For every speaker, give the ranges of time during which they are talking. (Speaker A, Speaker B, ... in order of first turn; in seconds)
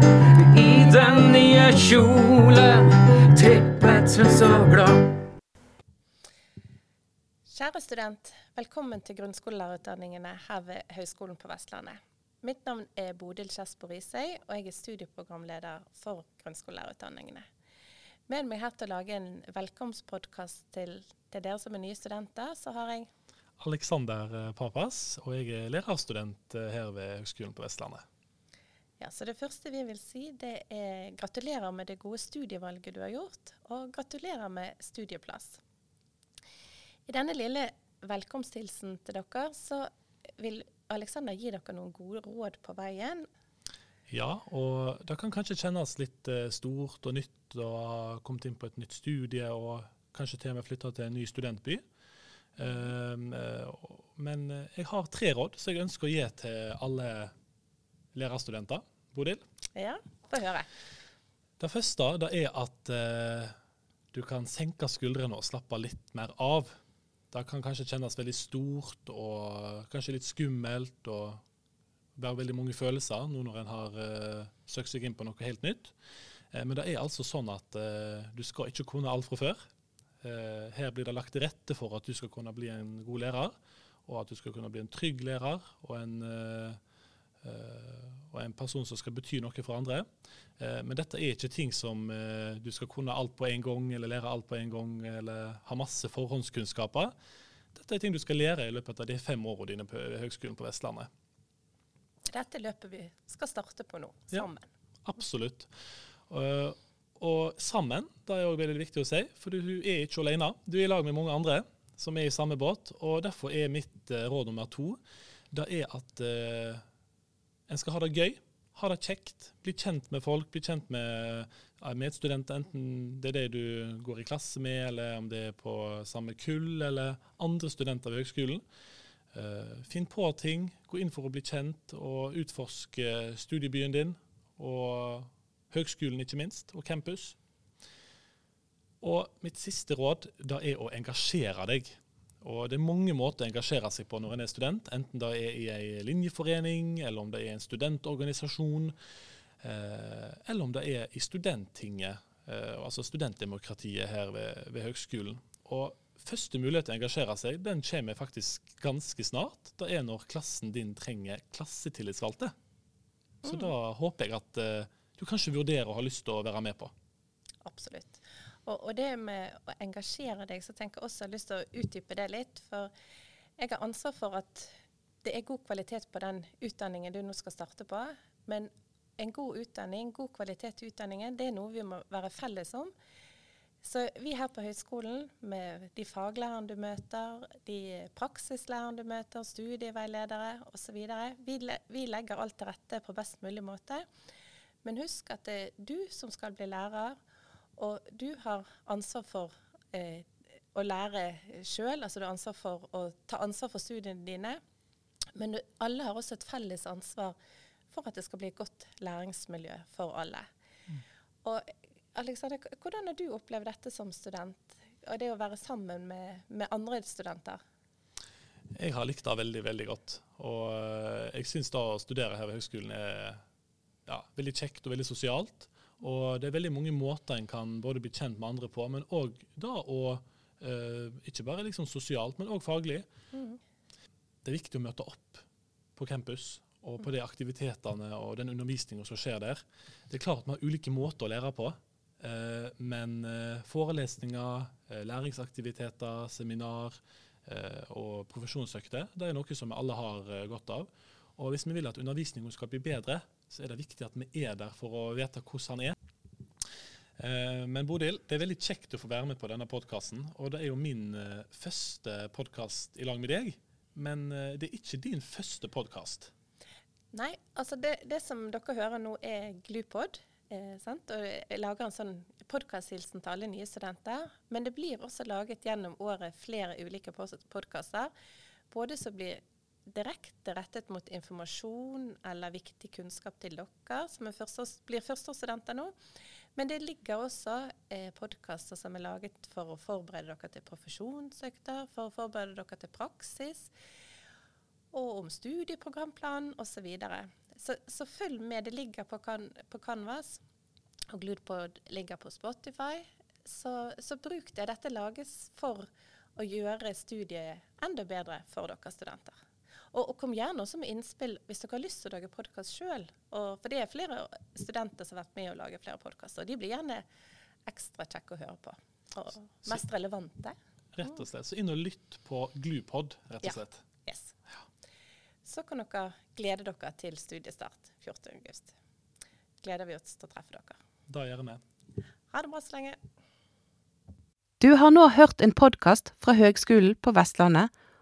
Speaker A: 0.4-5.1
Speaker B: 7.5-17.4, 18.3-23.1, 29.0-35.6, 37.1-43.3, 59.8-60.7, 102.3-104.7, 163.4-163.7, 167.6-172.9, 173.6-174.7, 175.2-182.9, 183.8-194.0, 194.8-197.2, 197.8-204.6, 205.3-207.4, 207.9-210.5, 211.4-217.6, 233.3-233.6, 267.1-278.1, 278.7-285.9, 286.6-293.7, 294.9-300.4, 301.1-309.4, 309.9-317.1, 317.7-320.6, 323.4-324.4, 325.4-328.7, 329.6-330.8, 332.3-333.0
Speaker C: 23.6-28.0, 44.1-51.8, 52.6-57.3, 58.1-59.4, 61.6-63.5, 64.1-66.7, 67.3-71.4, 72.2-75.9, 76.5-79.6, 80.2-83.5, 84.1-86.8, 87.4-90.1, 90.6-97.1, 97.7-101.1, 105.0-105.7, 106.3-115.0, 115.5-116.8, 117.7-128.6, 129.3-137.4, 139.0-148.9, 149.6-162.5, 163.4-166.9, 218.8-223.4, 224.1-233.1, 234.4-235.4, 236.0-256.0, 257.2-266.3, 320.9-323.8, 331.1-331.6
Speaker D: 334.6-337.7